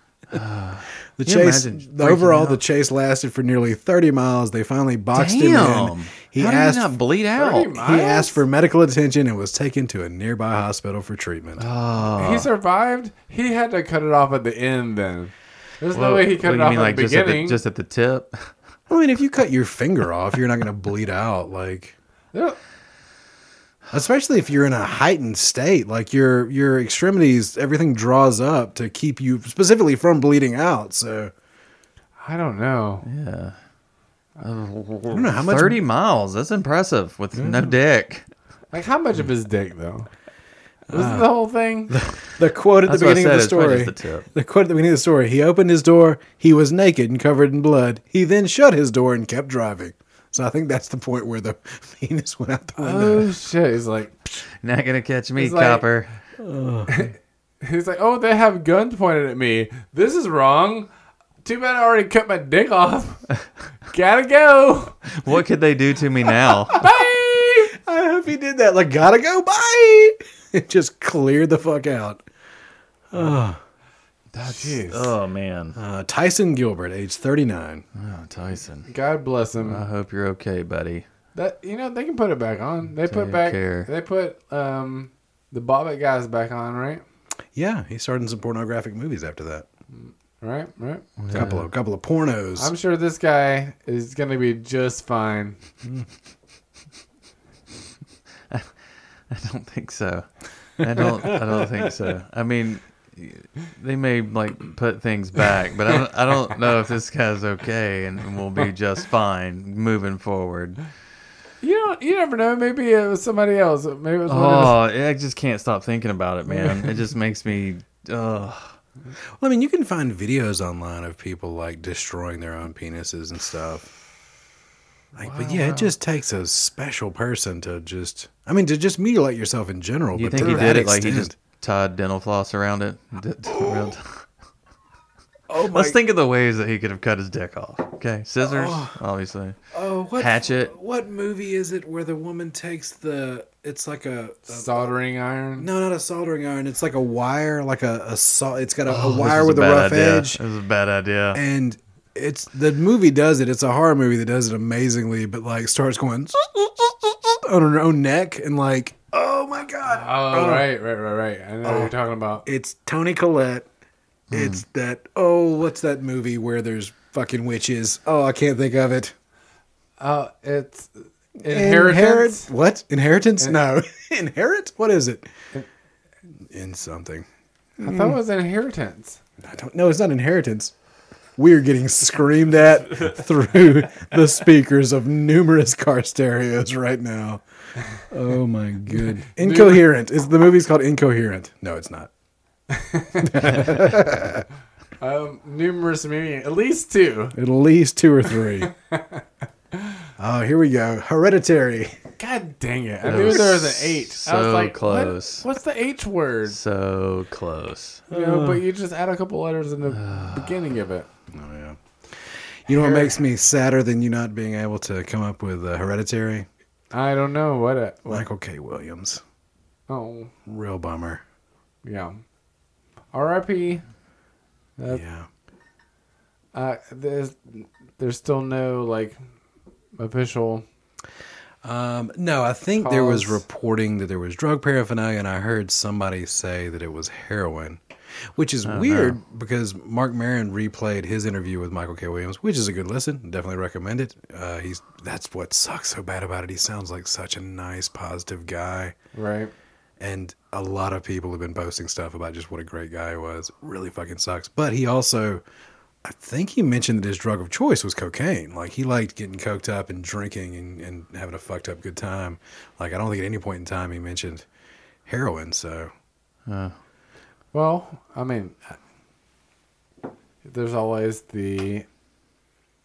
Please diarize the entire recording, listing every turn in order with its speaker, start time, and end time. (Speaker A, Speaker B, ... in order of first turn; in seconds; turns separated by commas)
Speaker A: 0.3-2.6, Speaker B: 1.2-6.9, Speaker A: 5.1-7.7, Speaker C: 7.3-8.4, Speaker B: 7.8-11.7, Speaker A: 11.6-12.5, Speaker C: 12.2-17.6, Speaker A: 15.9-18.5, Speaker B: 18.9-21.9, Speaker C: 22.3-22.6, Speaker B: 23.9-31.3, Speaker C: 32.2-33.0, Speaker A: 33.0-33.6, Speaker A: 34.4-38.2, Speaker B: 35.1-35.8, Speaker B: 37.3-37.7, Speaker C: 38.7-40.1, Speaker B: 40.9-41.3, Speaker C: 40.9-42.0, Speaker B: 41.9-53.3, Speaker A: 42.9-44.3, Speaker C: 52.8-54.3, Speaker A: 54.6-56.1, Speaker C: 55.4-55.8, Speaker B: 56.4-57.1, Speaker C: 56.9-60.9, Speaker C: 61.4-63.3, Speaker C: 63.9-65.0, Speaker A: 65.1-66.8, Speaker C: 66.7-67.7, Speaker B: 67.7-72.2, Speaker B: 73.1-73.6, Speaker A: 74.3-75.8, Speaker C: 74.4-75.1, Speaker B: 75.8-77.8, Speaker A: 78.0-78.9, Speaker C: 78.9-79.8, Speaker A: 79.6-81.0, Speaker C: 81.3-87.0, Speaker A: 83.0-83.9, Speaker B: 87.5-89.7, Speaker C: 89.9-91.4, Speaker A: 91.2-91.6, Speaker B: 91.3-92.7, Speaker C: 92.5-95.6, Speaker A: 99.3-110.8, Speaker B: 101.0-101.6, Speaker C: 111.6-114.8, Speaker A: 114.3-118.7, Speaker B: 119.4-123.9, Speaker B: 125.2-131.3, Speaker A: 125.3-125.8, Speaker A: 130.1-134.2, Speaker B: 133.5-133.9, Speaker B: 135.5-136.0, Speaker A: 135.6-139.6, Speaker B: 138.4-138.9, Speaker B: 139.7-144.9, Speaker A: 140.2-140.7, Speaker C: 144.5-145.7, Speaker B: 145.6-150.4, Speaker A: 148.9-151.4, Speaker B: 151.3-160.7, Speaker C: 159.8-162.4, Speaker B: 161.6-161.9, Speaker B: 162.4-163.7, Speaker A: 164.3-164.6, Speaker B: 164.3-169.1, Speaker C: 170.0-172.5, Speaker B: 171.4-175.3, Speaker B: 176.5-177.2, Speaker C: 177.8-179.2, Speaker B: 179.4-180.7, Speaker B: 181.4-187.4, Speaker B: 188.0-192.1, Speaker C: 189.3-189.8, Speaker C: 192.7-193.6, Speaker B: 193.2-194.4, Speaker C: 195.0-197.3, Speaker B: 197.3-198.7, Speaker C: 198.6-199.2, Speaker B: 200.2-202.0, Speaker C: 202.2-206.6, Speaker A: 203.0-205.4, Speaker B: 203.1-203.4, Speaker A: 206.5-208.0, Speaker B: 208.1-208.6, Speaker C: 208.1-211.1, Speaker A: 209.9-210.6, Speaker B: 211.3-216.5, Speaker C: 212.7-213.1, Speaker C: 216.9-218.2, Speaker B: 218.1-219.2, Speaker C: 219.9-220.3, Speaker B: 220.4-221.2, Speaker C: 221.8-222.2, Speaker C: 223.1-223.8, Speaker C: 224.8-225.0, Speaker B: 224.9-225.3, Speaker C: 226.5-229.2, Speaker C: 230.0-230.6, Speaker B: 231.6-237.8, Speaker C: 232.8-233.4, Speaker B: 238.3-248.9, Speaker A: 238.6-239.2, Speaker C: 249.1-249.5, Speaker B: 250.0-255.4, Speaker B: 256.0-264.4, Speaker B: 265.1-265.9, Speaker A: 266.5-266.7, Speaker C: 267.5-268.8, Speaker C: 270.4-271.9